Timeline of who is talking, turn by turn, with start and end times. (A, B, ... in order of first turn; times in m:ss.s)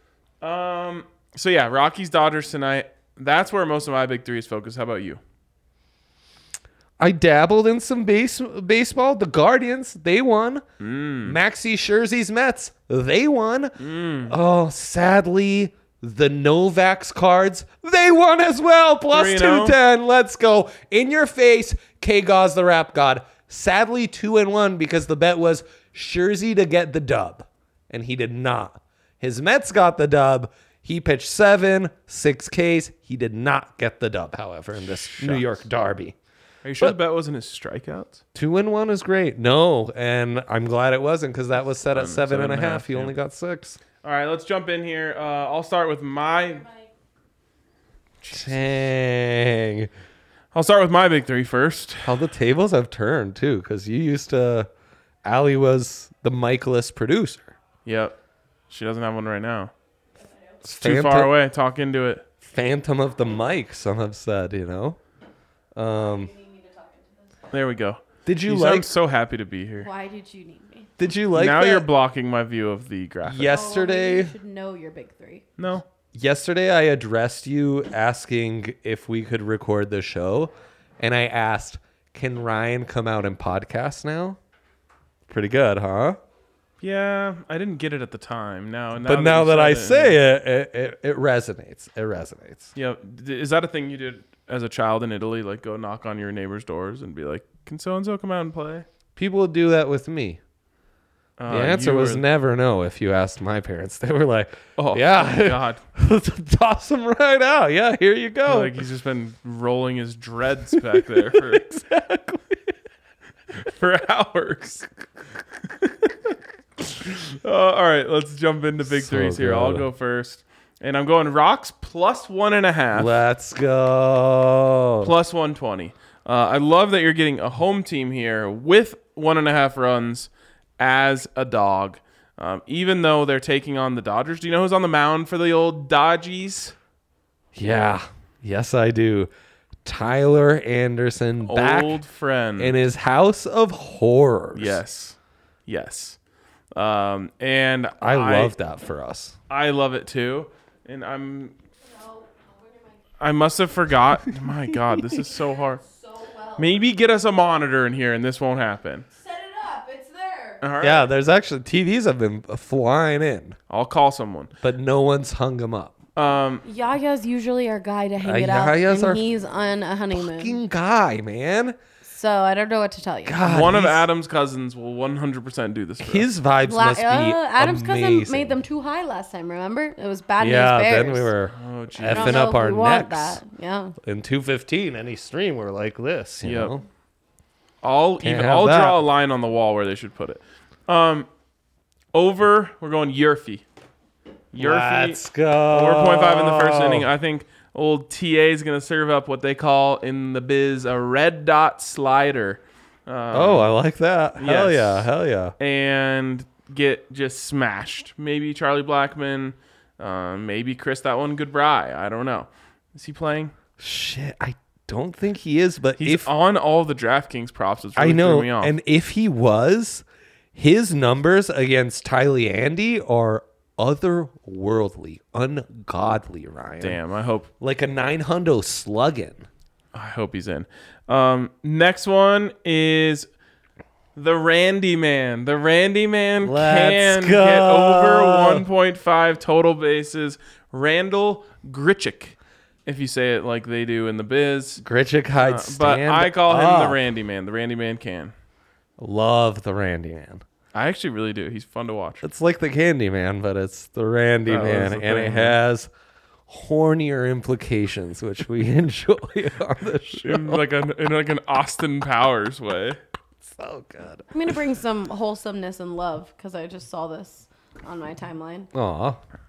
0:00.4-0:05.2 A
0:07.0-0:10.6 B
0:10.8-0:11.4 A
0:11.2-0:36.2 B
0:13.8-0:14.4 A
0:19.1-0:19.8 A
0:34.9-0:35.6 A
0:36.6-0:38.2 A
0:38.3-0:43.8 B
0:41.9-0:43.1 A
0:44.0-0:46.6 A
0:48.2-0:48.6 A
0:48.3-0:49.9 B
0:50.5-0:52.2 A
0:52.0-0:54.7 B
0:55.2-0:57.5 B
0:57.8-0:58.2 A
0:58.7-0:59.7 A
1:00.6-1:01.3 B
1:00.8-1:02.2 A
1:02.4-1:05.0 B
1:05.8-1:06.3 B
1:06.2-1:07.3 C
1:07.5-1:09.9 A
1:08.2-1:08.9 B
1:09.8-1:10.9 C
1:11.0-1:11.9 B
1:11.3-1:13.6 A
1:13.2-1:14.3 B
1:13.5-1:15.4 C
1:15.6-1:15.9 A
1:16.1-1:24.4 B
1:25.3-1:26.2 B
1:26.8-1:30.2 A
1:29.0-1:32.7 B
1:32.8-1:38.9 A
1:39.2-1:40.4 B
1:41.4-1:42.2 A
1:41.5-1:48.8 B
1:44.8-1:45.8 A
1:48.4-1:51.8 A
1:50.7-1:52.7 B
1:53.6-1:54.9 A
1:56.9-2:03.1 A
1:58.9-1:59.9 B
2:02.9-2:05.1 B
2:05.0-2:16.7 A
2:17.6-2:19.3 B
2:19.8-2:22.0 B
2:21.4-2:22.8 A
2:22.6-2:24.8 B
2:24.6-2:26.2 A
2:26.7-2:28.5 A
2:28.0-2:29.4 B
2:29.5-2:31.6 A
2:31.8-2:33.0 C
2:33.2-2:35.8 A
2:34.9-2:35.2 B
2:35.8-2:36.8 C
2:36.6-2:39.1 A
2:39.1-2:40.6 C
2:40.6-2:41.1 A
2:40.8-2:43.6 B
2:43.7-2:44.5 A
2:44.6-2:46.0 B
2:46.2-2:46.6 A
2:46.6-2:50.6 C
2:48.2-2:49.2 B
2:50.1-2:51.8 B
2:52.0-2:53.4 C
2:53.2-2:54.1 B
2:53.4-2:56.3 A
2:56.0-2:58.6 B
2:56.6-3:01.3 C
3:00.4-3:03.4 B
3:01.5-3:02.5 A
3:02.1-3:04.0 C
3:04.0-3:06.8 B
3:06.4-3:06.8 A
3:07.8-3:11.3 A
3:08.2-3:09.0 B
3:12.1-3:13.6 A
3:14.5-3:23.7 A
3:14.6-3:17.1 B
3:23.3-3:25.5 B
3:24.4-3:25.1 A
3:25.6-3:33.5 A
3:33.8-3:36.3 B
3:36.0-3:38.7 A
3:38.0-3:47.0 B
3:46.8-3:47.5 A
3:47.6-3:49.5 B
3:49.9-3:53.3 A
3:54.2-4:04.8 A
3:56.4-3:58.6 B
4:04.8-4:07.0 B
4:05.4-4:08.3 A
4:09.0-4:10.4 B
4:10.7-4:12.3 A
4:12.2-4:15.9 B
4:14.5-4:15.6 A
4:16.5-4:20.6 B
4:20.1-4:23.0 A
4:23.4-4:24.3 B
4:24.3-4:28.7 C
4:28.7-4:29.2 B